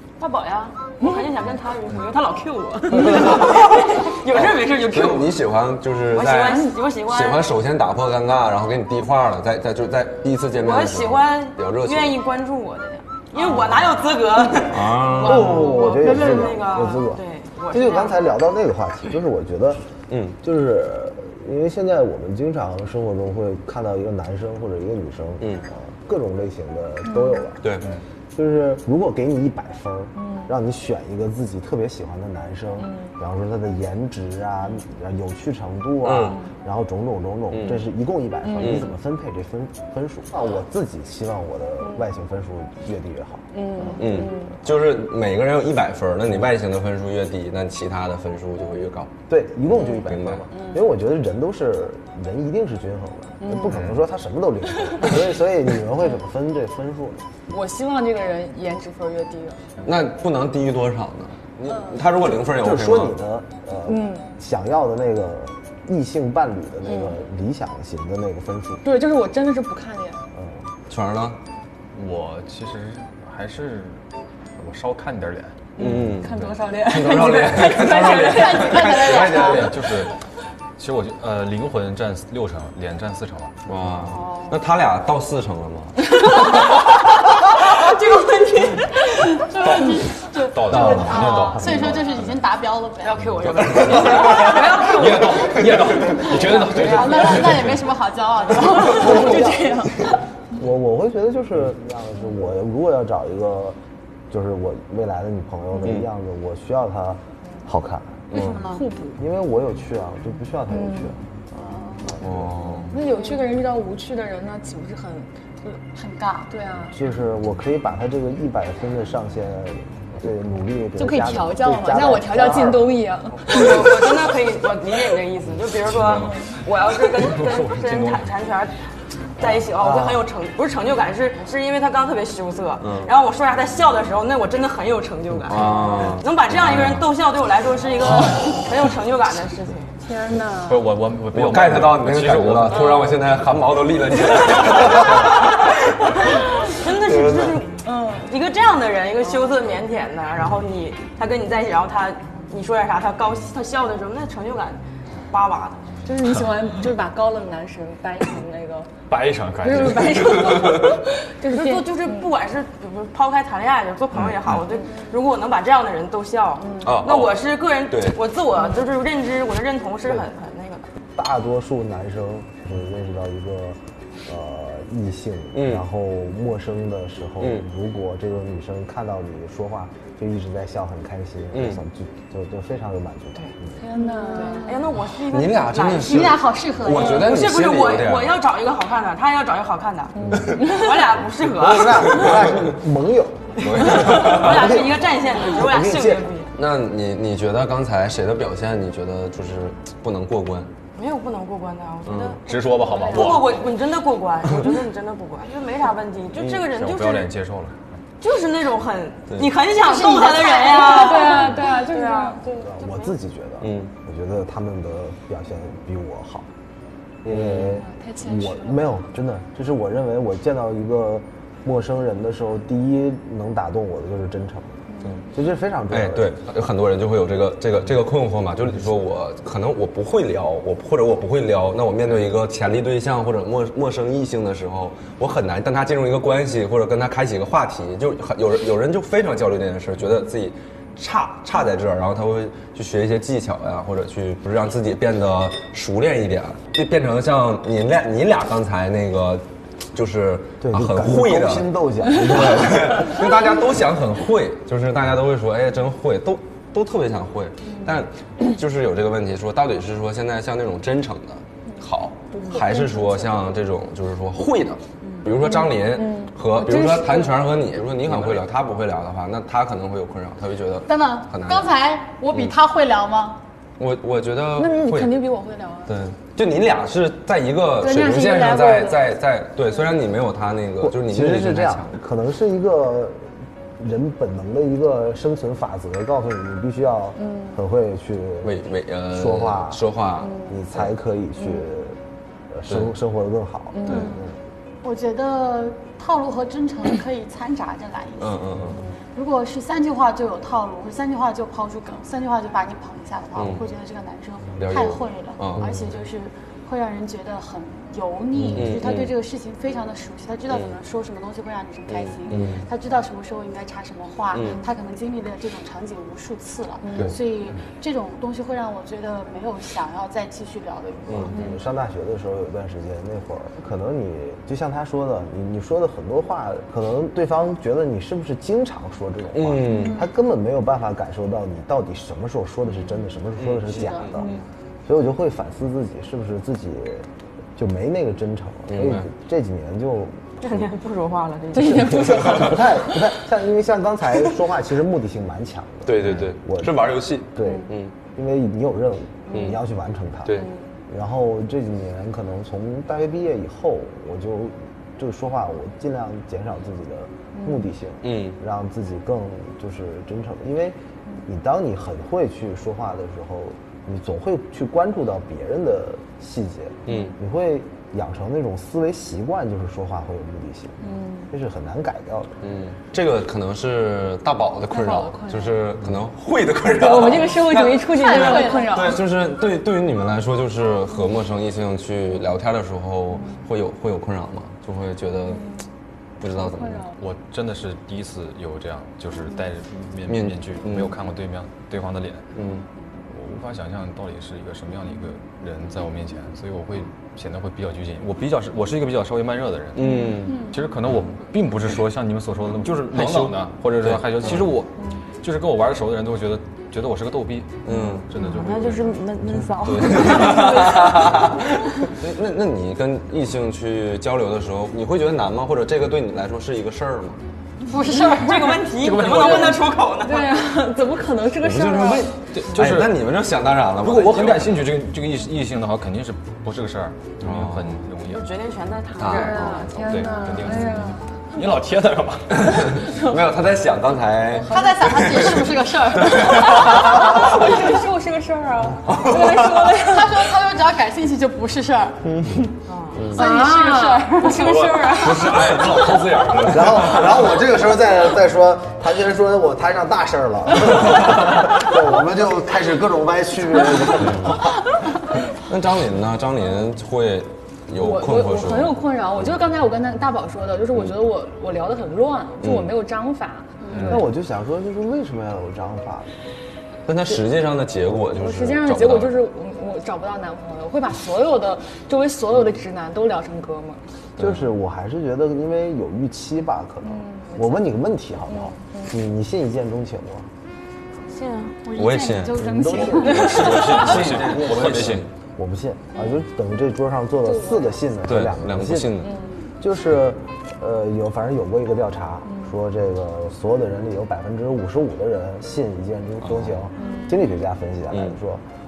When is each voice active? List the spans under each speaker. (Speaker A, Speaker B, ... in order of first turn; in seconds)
Speaker A: 0.2-5.4, 6.1-7.5, 10.6-18.4, 93.0-97.7, 123.5-128.8, 129.4-139.9, 144.7-145.5, 146.3-155.9, 161.5-170.9, 184.3-186.4, 187.0-192.4, 193.6-196.5, 200.9-207.3, 208.2-212.4, 340.4-342.3, 407.7-411.4, 417.7-420.3, 428.0-429.6, 442.7-443.1, 481.1-481.6
Speaker B: 3.1-3.5, 4.2-12.2, 13.4-13.9, 14.6-15.9, 20.1-20.4, 27.6-27.9, 36.0-36.4, 37.5-37.8, 38.5-38.9, 43.9-49.1, 49.8-50.5, 59.8-63.1, 70.9-71.4, 75.8-80.0, 83.7-86.7, 90.7-91.9, 93.6-94.7, 105.8-106.1, 108.3-108.7, 112.2-113.0, 132.8-133.1, 135.4-136.3, 141.3-145.7, 147.0-147.7, 164.2-164.5, 166.8-168.2, 175.5-175.8, 177.4-177.6, 181.5-181.8, 185.0-188.3, 190.2-190.6, 192.2-192.5, 193.6-194.7, 196.5-200.7, 202.0-202.4, 206.4-206.7, 213.6-213.9, 217.3-217.8, 225.9-271.7, 273.8-275.2, 275.9-281.9, 288.4-290.9, 292.7-292.9, 293.9-294.1, 298.2-298.8, 303.4-303.7, 304.6-305.8, 308.5-309.1, 310.5-310.8, 311.9-312.6, 314.3-314.6, 321.1-321.4, 329.3-330.0, 333.4-334.4, 338.7-339.1, 342.0-342.5, 345.9-347.9, 349.3-349.6, 350.2-350.5, 358.0-358.4, 366.9-367.1, 372.4-385.5, 386.2-386.9, 390.1-390.9, 392.3-392.6, 399.7-400.5, 402.6-404.6, 407.6-408.1, 409.6-417.2, 421.4-424.7, 427.2-427.8, 429.0-429.7, 432.4-437.5, 438.8-439.8, 442.9-443.2, 444.4-447.5, 454.0-454.4, 455.4-459.3, 462.4-462.8, 466.9-469.2, 474.2-474.5, 481.7-485.1, 488.1-489.1, 496.2-496.6
Speaker C: 15.2-19.8, 20.4-27.6, 28.3-44.4, 49.3-57.2, 62.5-68.8, 70.3-70.6, 98.8-99.9, 100.5-103.8, 104.3-108.3, 109.2-111.2, 112.2-112.7, 116.9-122.9, 129.7-130.2, 171.2-183.8, 190.2-190.6, 191.4-196.3, 212.6-216.5, 217.2-224.8, 225.3-226.4, 250.6-253.2, 280.8-283.2, 283.8-288.6, 289.1-289.8, 290.5-292.0, 292.5-294.3, 308.4-308.8, 321.2-334.3, 334.9-340.4, 342.0-370.8, 371.3-372.3, 446.4-454.6, 463.9-466.1, 474.2-480.3, 482.3-489.1, 489.6-498.4
Speaker D: 27.1-27.4, 30.2-30.5, 32.8-33.1, 38.4-38.9, 43.5-44.6, 49.8-50.9, 53.4-53.8, 57.5-59.6, 63.9-64.3, 66.8-67.2, 68.8-70.2, 75.8-79.5, 86.2-86.8, 87.7-89.5, 98.6-100.2, 108.7-109.2, 110.7-111.1, 112.9-115.8, 116.5-117.0, 121.0-123.6, 140.0-140.9, 147.8-148.3, 156.0-158.9, 159.6-162.3, 166.6-167.0, 183.8-184.8, 190.3-190.9, 210.1-212.9, 217.7-219.0, 262.3-263.4, 265.4-267.4, 274.6-275.9, 277.8-279.0, 287.2-287.6, 290.2-290.6, 293.7-294.1, 316.8-317.1, 329.7-330.0, 341.5-342.6, 357.3-357.7, 366.9-367.1, 370.8-371.3, 374.7-375.6, 376.7-379.0, 386.4-386.9, 420.0-422.1, 429.0-431.0, 432.8-433.2, 434.3-435.0, 436.1-440.1, 443.1-445.9, 457.8-464.0, 468.2-473.8, 476.8-477.7, 478.3-478.9, 487.2-487.8, 489.0-489.2, 496.8-497.1
Speaker E: 53.6-54.0, 71.9-74.0, 74.6-75.7, 76.3-76.6, 79.5-80.1, 80.8-83.5, 90.5-92.3, 93.7-97.9, 127.1-128.3, 136.5-137.0, 140.7-143.0, 159.1-160.7, 202.4-203.6, 206.7-207.8, 386.9-392.3, 393.1-409.0, 418.7-419.7, 422.3-423.0, 423.8-428.3, 429.4-432.9, 463.7-464.0, 483.4-485.1
Speaker F: 78.0-79.7, 89.4-93.3, 96.5-99.6, 108.3-108.9, 111.5-112.1, 115.9-116.5, 184.0-184.8, 186.0-187.3, 209.8-211.4, 270.9-273.4, 293.9-294.2, 294.8-298.5, 299.1-321.5, 333.8-334.1, 377.9-379.0, 417.7-418.5, 434.5-437.2, 439.8-444.6, 463.6-463.9, 481.6-483.9